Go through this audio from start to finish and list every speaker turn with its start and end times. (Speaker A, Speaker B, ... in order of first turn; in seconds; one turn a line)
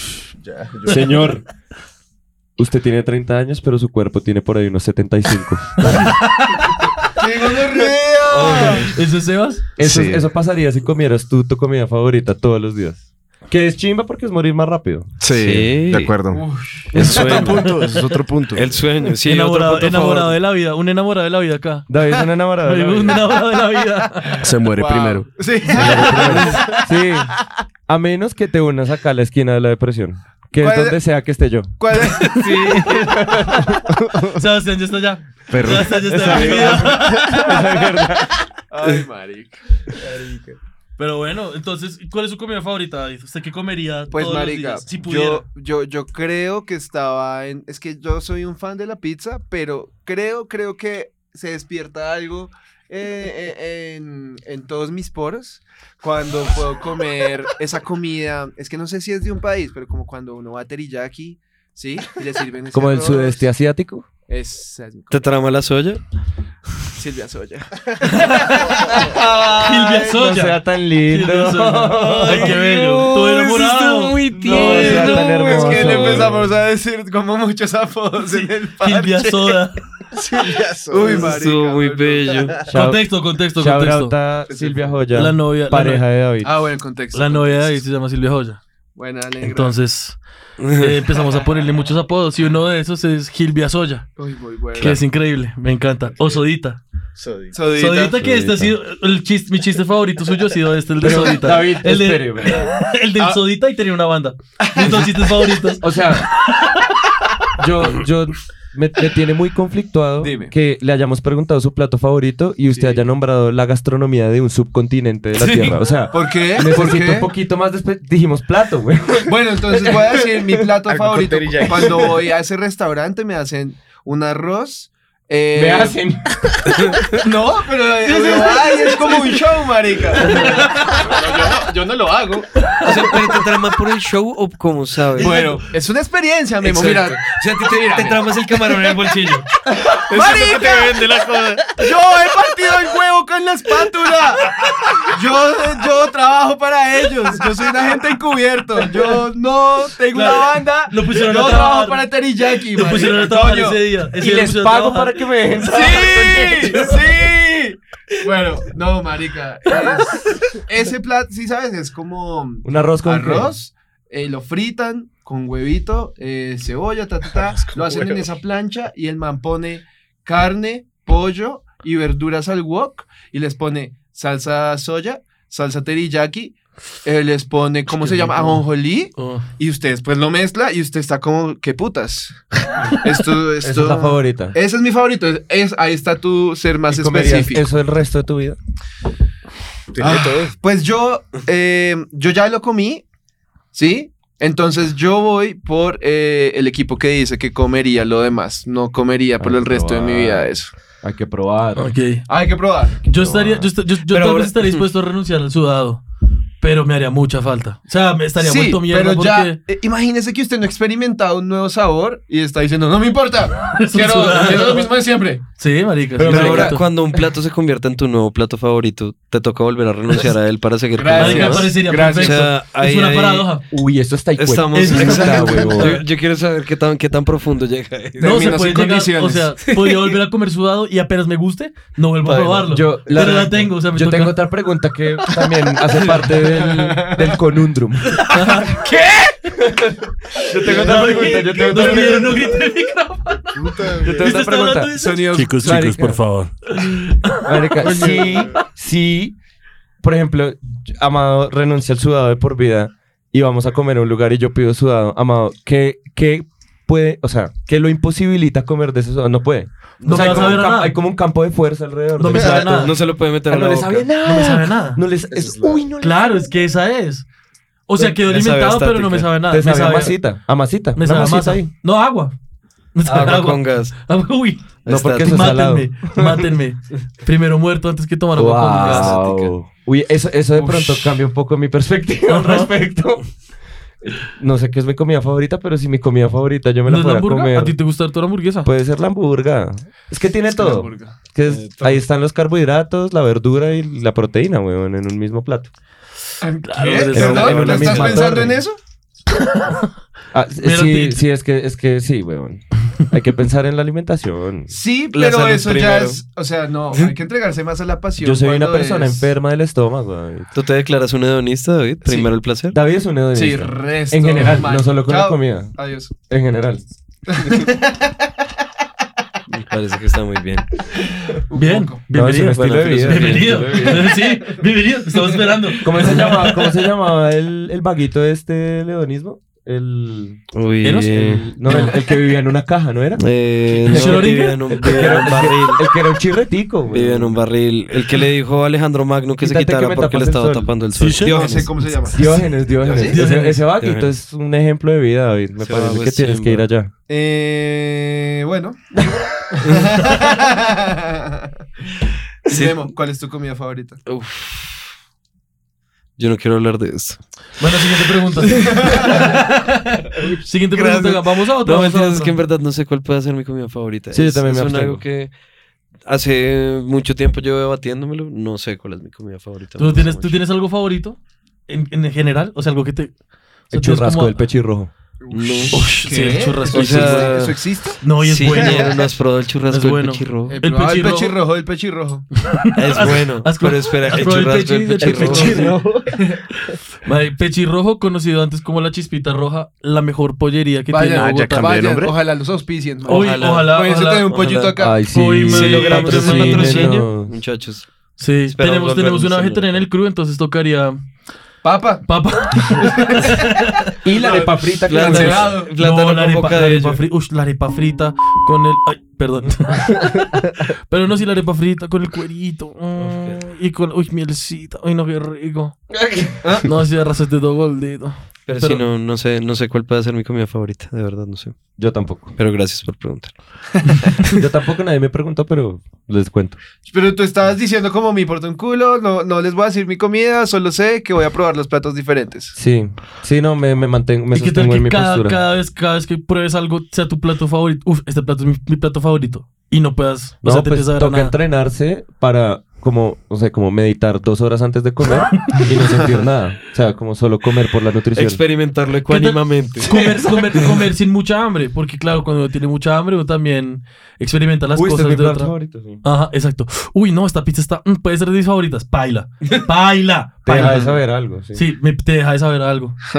Speaker A: 0.4-1.3
Speaker B: 0.8-1.4
Speaker B: 2.6-6.2
Speaker C: 5.8-7.1
Speaker D: 7.1-8.9
Speaker E: 8.3-8.9
Speaker C: 8.9-9.6
Speaker B: 9.8-15.1
Speaker A: 9.8-10.3
Speaker A: 15.2-16.4
Speaker E: 15.3-16.1
Speaker D: 16.3-17.3
Speaker E: 16.9-17.8
Speaker A: 17.0-18.9
Speaker C: 17.0-18.0
Speaker E: 18.5-20.4
Speaker C: 19.2-21.9
Speaker B: 21.9-23.3
Speaker C: 22.6-24.4
Speaker D: 24.3-27.1
Speaker A: 24.4-25.5
Speaker B: 25.7-33.8
Speaker D: 30.6-31.0
Speaker D: 31.8-34.2
Speaker E: 32.4-32.8
Speaker C: 34.3-37.6
Speaker A: 35.5-36.7
Speaker B: 35.9-38.4
Speaker D: 36.3-37.6
Speaker D: 38.7-39.6
Speaker A: 40.1-40.6
Speaker C: 41.0-45.4
Speaker D: 44.1-63.5
Speaker B: 62.7-64.1
Speaker D: 64.3-65.3
Speaker E: 65.1-66.0
Speaker D: 66.9-70.0
Speaker C: 68.0-69.0
Speaker B: 68.9-72.6
Speaker C: 69.5-74.5
Speaker E: 72.3-76.3
Speaker D: 74.4-79.6
Speaker B: 74.4-76.5
Speaker C: 78.8-79.8
Speaker E: 80.2-82.7
Speaker A: 80.2-81.3
Speaker D: 80.9-82.7
Speaker B: 82.7-86.5
Speaker C: 82.7-84.1
Speaker D: 84.5-85.0
Speaker C: 85.1-86.1
Speaker D: 86.4-87.8
Speaker C: 87.1-88.6
Speaker D: 89.0-89.8
Speaker C: 89.4-90.2
Speaker E: 90.6-91.1
Speaker C: 90.7-94.1
Speaker D: 94.2-95.0
Speaker C: 94.8-96.8
Speaker A: 96.2-96.4
Speaker A: 97.2-97.6
Speaker D: 97.5-98.3
Speaker C: 97.7-106.9
Speaker B: 98.2-98.8
Speaker B: 101.0-102.7
Speaker D: 104.6-105.5
Speaker B: 105.8-106.3
Speaker B: 107.6-120.6
Speaker D: 110.2-110.5
Speaker D: 112.7-113.0
Speaker D: 115.3-117.3
Speaker D: 119.3-126.0
Speaker A: 120.9-122.2
Speaker B: 125.5-126.8
Speaker D: 127.1-132.5
Speaker E: 132.8-135.4
Speaker D: 135.2-138.3
Speaker E: 136.6-139.5
Speaker D: 139.7-141.2
Speaker A: 140.1-141.7
Speaker D: 141.8-153.8
Speaker C: 150.1-152.1
Speaker C: 152.8-155.2
Speaker B: 154.1-157.1
Speaker D: 155.6-187.7
Speaker B: 162.6-163.5
Speaker A: 167.4-168.3
Speaker C: 178.0-178.6
Speaker C: 179.2-179.5
Speaker B: 183.6-184.6
Speaker B: 186.9-188.6
Speaker A: 189.9-190.6
Speaker D: 190.0-193.0
Speaker D: 193.7-200.7
Speaker B: 199.4-200.5
Speaker B: 201.0-201.9
Speaker C: 201.8-202.2
Speaker D: 202.3-203.0
Speaker C: 203.0-206.0
Speaker B: 203.1-203.7
Speaker C: 206.6-209.6
Speaker D: 208.4-215.4
Speaker C: 213.7-214.9
Speaker C: 215.6-216.9
Speaker B: 216.2-216.8
Speaker E: 216.2-223.5
Speaker D: 220.9-222.5
Speaker C: 221.1-223.6
Speaker B: 223.7-226.0
Speaker E: 224.4-228.6
Speaker C: 224.7-226.0
Speaker C: 228.2-234.4
Speaker D: 228.2-229.5
Speaker E: 229.7-230.2
Speaker E: 232.3-232.6
Speaker B: 232.4-238.6
Speaker D: 236.6-237.3
Speaker C: 238.3-238.8
Speaker D: 238.8-239.1
Speaker B: 239.4-242.5
Speaker D: 240.5-242.4
Speaker C: 240.6-245.4
Speaker A: 243.6-244.1
Speaker D: 243.9-244.2
Speaker B: 244.0-245.0
Speaker D: 244.9-245.9
Speaker F: 245.3-246.6
Speaker B: 245.6-246.2
Speaker C: 246.7-248.5
Speaker B: 247.4-249.4
Speaker D: 247.8-248.3
Speaker B: 250.0-266.4
Speaker E: 260.0-260.6
Speaker C: 260.1-260.9
Speaker C: 262.2-262.9
Speaker E: 262.4-264.1
Speaker C: 264.2-265.0
Speaker A: 265.3-265.9
Speaker C: 266.0-267.3
Speaker C: 267.9-270.1
Speaker E: 268.0-269.3
Speaker B: 269.5-271.7
Speaker C: 271.0-272.4
Speaker C: 272.9-279.2
Speaker E: 273.1-273.9
Speaker E: 274.9-275.5
Speaker B: 274.9-276.5
Speaker B: 278.4-283.3
Speaker E: 278.7-279.5
Speaker C: 280.6-281.1
Speaker C: 282.3-282.7
Speaker B: 284.0-287.8
Speaker C: 286.9-288.7
Speaker B: 288.6-295.7
Speaker D: 290.5-291.1
Speaker E: 291.6-292.0
Speaker D: 296.4-298.8
Speaker C: 296.6-298.4
Speaker B: 297.0-298.6
Speaker C: 299.3-299.9
Speaker B: 300.3-304.7
Speaker C: 300.6-301.2
Speaker D: 304.7-309.3
Speaker E: 305.1-306.2
Speaker B: 308.2-310.5
Speaker E: 310.5-312.8
Speaker D: 312.0-312.3
Speaker B: 312.7-315.8
Speaker D: 313.3-316.1
Speaker B: 316.3-316.9
Speaker D: 317.3-318.1
Speaker E: 319.5-320.7
Speaker D: 321.4-322.0
Speaker C: 321.5-326.8
Speaker B: 322.1-324.2
Speaker E: 322.5-323.9
Speaker B: 325.8-330.4
Speaker E: 330.5-331.9
Speaker C: 330.8-331.9
Speaker B: 331.1-333.2
Speaker E: 333.2-335.8
Speaker B: 333.9-337.4
Speaker C: 333.9-335.2
Speaker E: 336.9-341.7
Speaker B: 339.4-340.8
Speaker F: 341.0-341.6
Speaker D: 341.2-343.1
Speaker B: 342.1-346.9
Speaker E: 342.8-343.2
Speaker C: 343.0-343.6
Speaker E: 343.8-344.1
Speaker E: 345.6-346.6
Speaker D: 347.1-351.5
Speaker E: 349.6-350.0
Speaker D: 352.5-354.0
Speaker E: 352.5-352.9
Speaker E: 354.1-354.9
Speaker E: 356.2-357.2
Speaker C: 357.6-362.4
Speaker E: 358.4-365.3
Speaker D: 358.8-359.3
Speaker B: 364.1-365.0
Speaker E: 366.1-370.4
Speaker C: 369.8-373.1
Speaker C: 373.7-374.4
Speaker B: 373.7-374.9
Speaker D: 375.2-379.1
Speaker E: 375.3-376.0
Speaker C: 375.7-377.4
Speaker E: 376.7-377.6
Speaker C: 378.0-378.9
Speaker E: 378.2-380.6
Speaker C: 379.7-381.4
Speaker D: 380.5-382.3
Speaker C: 382.4-385.8
Speaker E: 382.8-386.1
Speaker B: 385.0-385.6
Speaker C: 387.0-391.7
Speaker D: 390.9-395.0
Speaker A: 391.1-392.2
Speaker C: 393.1-394.3
Speaker E: 393.1-393.8
Speaker E: 394.3-394.8
Speaker B: 394.8-397.4
Speaker C: 395.1-397.0
Speaker E: 395.4-399.9
Speaker C: 398.2-401.0
Speaker D: 401.6-402.1
Speaker C: 402.1-403.9
Speaker D: 402.7-403.5
Speaker B: 404.0-405.6
Speaker D: 404.0-405.7
Speaker E: 404.9-407.0
Speaker C: 405.8-415.9
Speaker E: 413.0-413.4
Speaker B: 415.9-416.5
Speaker C: 416.6-418.9
Speaker E: 418.5-421.6
Speaker B: 421.8-422.4
Speaker E: 422.4-424.3
Speaker B: 424.3-426.6
Speaker D: 426.9-432.5
Speaker B: 432.6-435.4
Speaker C: 434.3-441.4
Speaker B: 440.4-448.4
Speaker E: 448.1-449.9
Speaker C: 449.1-460.9
Speaker B: 449.8-450.8
Speaker B: 454.8-456.0
Speaker B: 460.4-461.6
Speaker C: 461.5-463.0